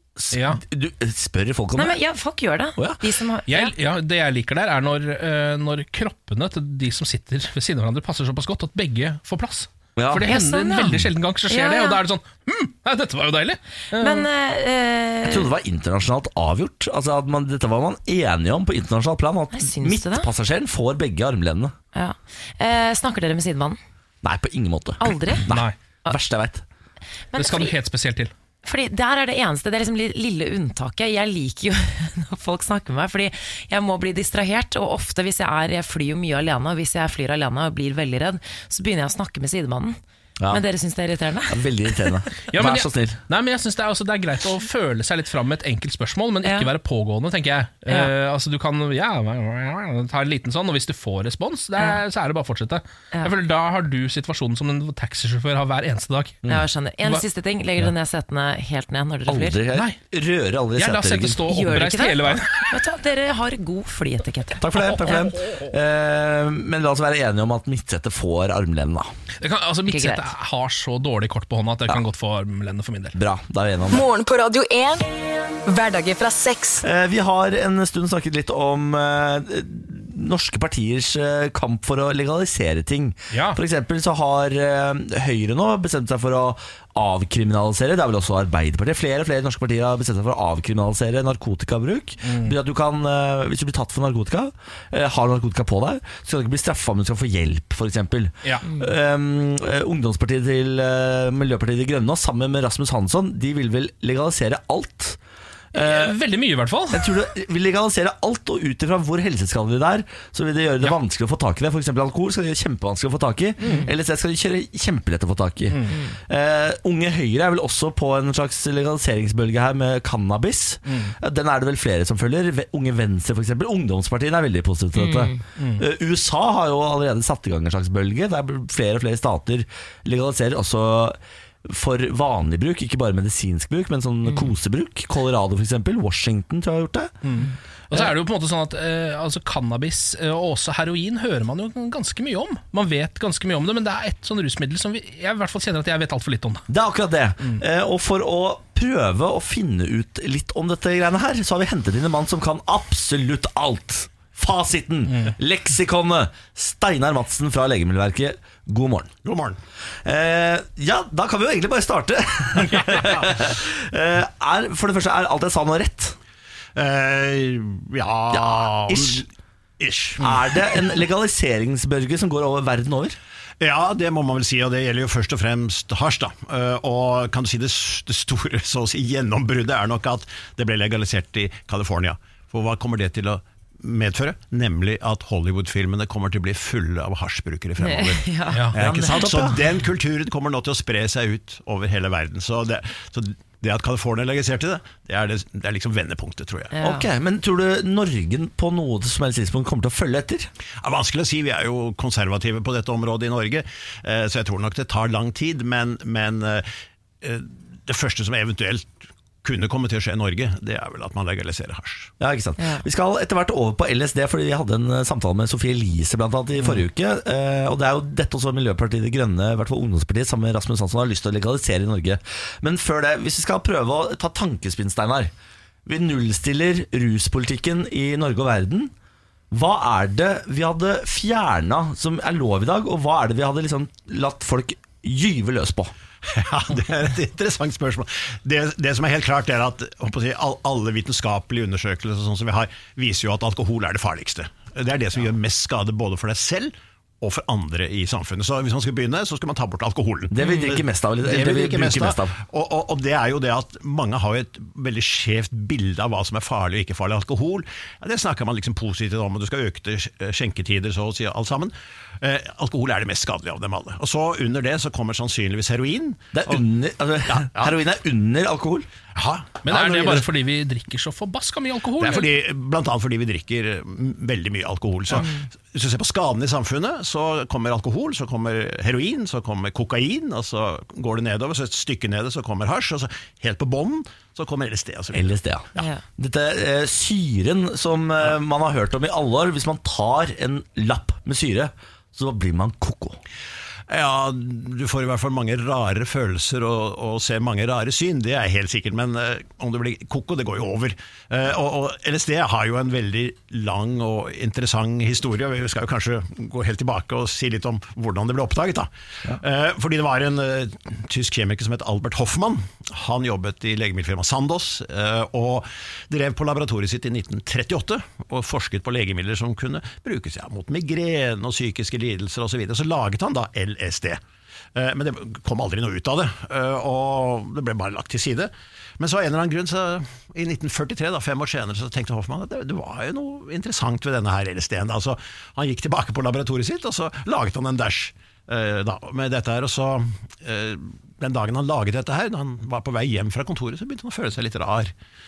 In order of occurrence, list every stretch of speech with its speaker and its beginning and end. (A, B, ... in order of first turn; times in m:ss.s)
0:00.2-0:02.0 A
0:00.3-0:00.6 B
0:01.8-0:03.7 C
0:02.8-0:03.0 A
0:03.5-0:14.3 B
0:10.0-0:11.1 A
0:10.2-0:11.0 C
0:11.5-0:12.0 C
0:13.9-0:15.5 C
0:15.2-0:21.8 A
0:19.5-0:20.3 C
0:21.9-0:23.8 C
0:24.2-0:26.6 A
0:25.0-0:25.4 C
0:25.5-0:25.7 B
0:27.3-0:27.7 C
0:27.4-0:28.3 B
0:28.6-0:40.0 C
0:40.5-0:42.1 C
0:41.5-0:43.2 A
0:42.5-0:56.4 B
0:46.4-0:46.7 C
0:56.5-0:59.6 C
0:59.3-1:01.4 A
1:00.8-1:02.8 B
1:01.5-1:04.6 C
1:04.6-1:09.1 A
1:09.4-1:13.2 B
1:09.9-1:10.2 C
1:13.1-1:14.0 A
1:13.9-1:15.1 D
1:15.6-1:16.8 D
1:16.8-1:45.2 A
1:23.3-1:23.6 B
1:32.2-1:32.6 B
1:45.7-1:46.2 A
1:45.7-1:47.1 B
1:46.9-2:17.1 A
1:53.6-1:53.9 B
1:53.6-1:53.9 C
1:55.7-1:55.9 B
2:00.9-2:01.1 B
2:04.9-2:05.4 C
2:05.6-2:05.8 B
2:17.2-2:26.6 B
2:26.7-2:39.1 A
2:35.1-2:35.3 B
2:39.2-2:39.6 E
2:40.0-2:46.2 A
2:46.7-2:50.2 E
2:48.3-2:49.2 A
2:50.2-2:53.2 A
2:53.6-3:16.7 E
3:07.8-3:08.7 C
3:08.8-3:09.6 A
3:16.7-3:17.1 C
3:16.8-3:20.5 A
3:20.8-3:26.7 E
3:27.2-3:32.1 E
3:32.2-3:45.3 A
3:32.6-3:32.8 C
3:45.8-3:48.9 A
3:49.5-3:55.9 A
3:56.3-4:26.6 E
4:10.3-4:12.4 A
4:10.4-4:10.7 C
4:26.3-4:28.9 A
4:27.3-4:27.8 E
4:29.1-4:30.2 E
4:29.6-4:32.3 B
4:32.0-4:45.9 E
4:35.2-4:35.4 C
4:45.1-4:53.2 A
4:45.8-4:46.0 C
4:53.9-5:24.2 E
5:24.7-5:44.9 E